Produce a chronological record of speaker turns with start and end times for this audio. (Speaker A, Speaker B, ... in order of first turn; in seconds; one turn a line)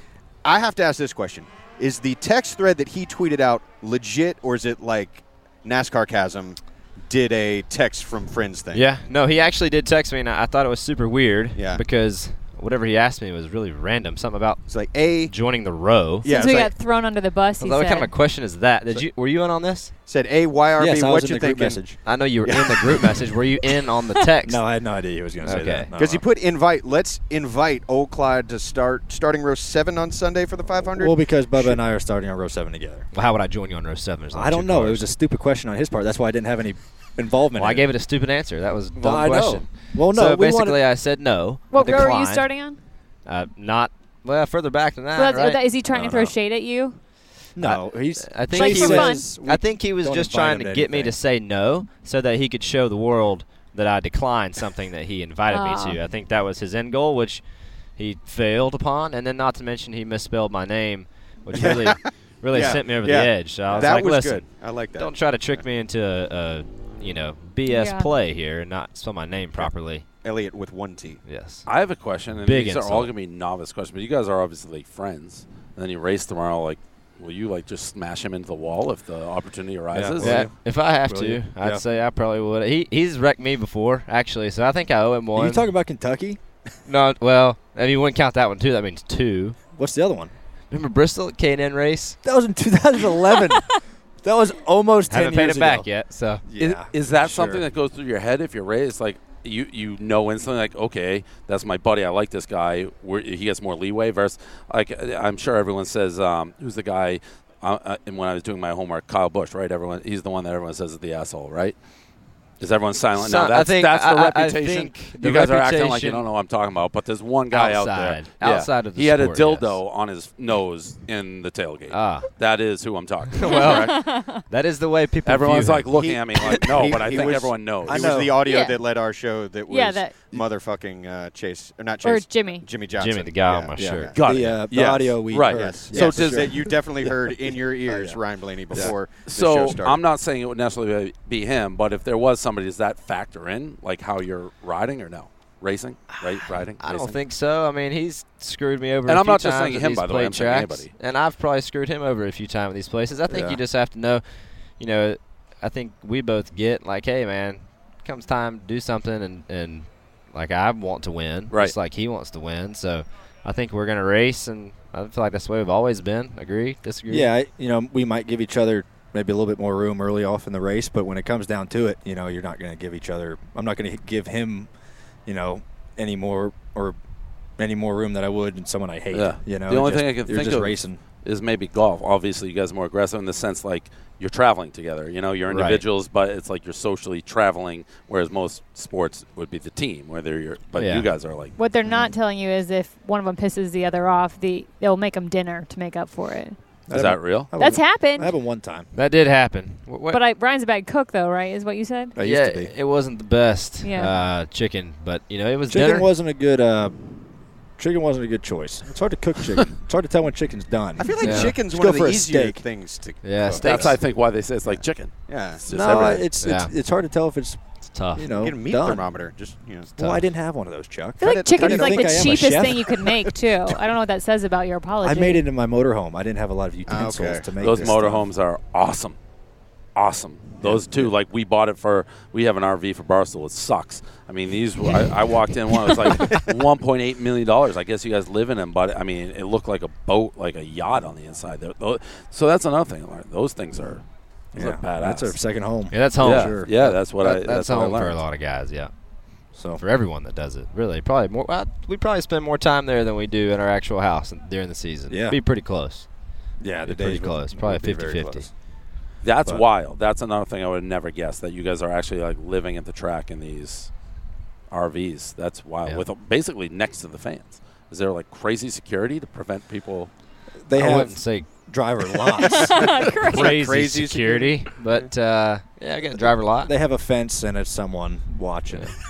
Speaker A: 0.4-8.8
Speaker B: 8.7-16.3
Speaker A: 11.6-11.8
Speaker A: 14.7-15.3
Speaker A: 16.2-16.8
Speaker C: 16.2-18.1
Speaker B: 17.6-19.9
Speaker A: 20.1-21.8
Speaker D: 20.8-22.0
Speaker B: 22.1-24.6
Speaker A: 22.4-23.3
Speaker D: 24.5-26.2
Speaker B: 25.4-25.9
Speaker A: 26.0-31.8
Speaker D: 31.0-33.1
Speaker B: 33.1-35.0
Speaker D: 34.3-37.9
Speaker B: 37.5-42.5
Speaker D: 39.0-40.8
Speaker C: 41.7-42.8
Speaker D: 41.8-42.1
Speaker B: 43.3-45.6
Speaker C: 45.1-47.0
Speaker D: 45.9-46.4
Speaker D: 47.6-51.1
Speaker B: 47.6-57.4
Speaker C: 48.5-49.3
Speaker C: 55.5-56.0
Speaker B: 58.0-70.0
Speaker A: 61.5-65.6
Speaker D: 63.7-63.9
Speaker C: 67.7-68.1
Speaker A: 70.2-71.2
Speaker B: 71.3-71.7
Speaker E: 71.7-80.4
Speaker B: 72.4-73.1
Speaker D: 79.9-81.8
Speaker B: 80.2-85.7
Speaker D: 85.4-86.4
Speaker B: 86.9-89.6
Speaker D: 89.8-90.3
Speaker B: 90.7-92.2
Speaker D: 92.2-95.9
Speaker B: 95.1-96.4
Speaker D: 96.5-97.7
Speaker E: 96.6-111.8
Speaker E: 112.6-124.0
Speaker B: 113.2-116.2
Speaker B: 117.5-119.8
Speaker B: 121.9-122.3
Speaker B: 123.4-125.9
Speaker C: 123.4-124.5
Speaker E: 125.3-128.2
Speaker A: 126.0-134.2
Speaker D: 126.8-128.4
Speaker C: 128.4-128.8
Speaker C: 129.7-130.3
Speaker C: 132.0-132.7
Speaker B: 133.0-134.1
Speaker D: 133.8-138.2
Speaker E: 134.2-136.7
Speaker A: 135.5-140.0
Speaker E: 138.8-147.2
Speaker B: 146.1-154.2
Speaker E: 149.1-150.9
Speaker D: 153.3-153.6
Speaker B: 154.8-167.3
Speaker D: 167.1-174.7
Speaker D: 175.3-177.0
Speaker D: 177.6-181.0
Speaker E: 179.1-191.6
Speaker B: 185.5-185.8
Speaker B: 190.8-191.1
Speaker C: 191.6-196.6
Speaker D: 196.9-198.9
Speaker E: 196.9-197.5
Speaker C: 197.6-198.3
Speaker B: 198.9-200.2
Speaker C: 200.1-202.2
Speaker D: 202.2-202.7
Speaker B: 202.2-206.1
Speaker C: 203.8-204.2
Speaker D: 205.7-206.9
Speaker D: 207.8-212.6
Speaker A: 211.0-214.0
Speaker B: 211.2-211.6
Speaker B: 213.2-213.9
Speaker E: 213.6-216.3
Speaker A: 214.7-216.2
Speaker D: 215.7-217.6
Speaker B: 216.3-216.7
Speaker B: 217.9-218.3
Speaker D: 218.2-219.1
Speaker A: 218.3-219.9
Speaker B: 220.0-220.2
Speaker D: 220.0-223.0
Speaker C: 221.2-225.4
Speaker A: 221.2-223.3
Speaker D: 225.0-228.3
Speaker A: 226.9-227.9
Speaker E: 227.6-229.2
Speaker E: 229.9-244.0
Speaker D: 230.6-231.1
Speaker D: 236.1-236.3
Speaker D: 244.5-246.7
Speaker E: 244.6-245.4
Speaker B: 245.9-248.9
Speaker E: 246.2-248.2
Speaker D: 249.5-249.8
Speaker B: 249.8-256.1
Speaker D: 255.1-255.4
Speaker D: 256.6-258.5
Speaker B: 256.8-258.5
Speaker E: 259.2-263.9
Speaker E: 264.7-270.1
Speaker D: 270.6-272.9
Speaker B: 270.7-271.5
Speaker C: 272.4-273.6
Speaker A: 272.7-275.1
Speaker B: 273.2-276.7
Speaker D: 276.6-279.0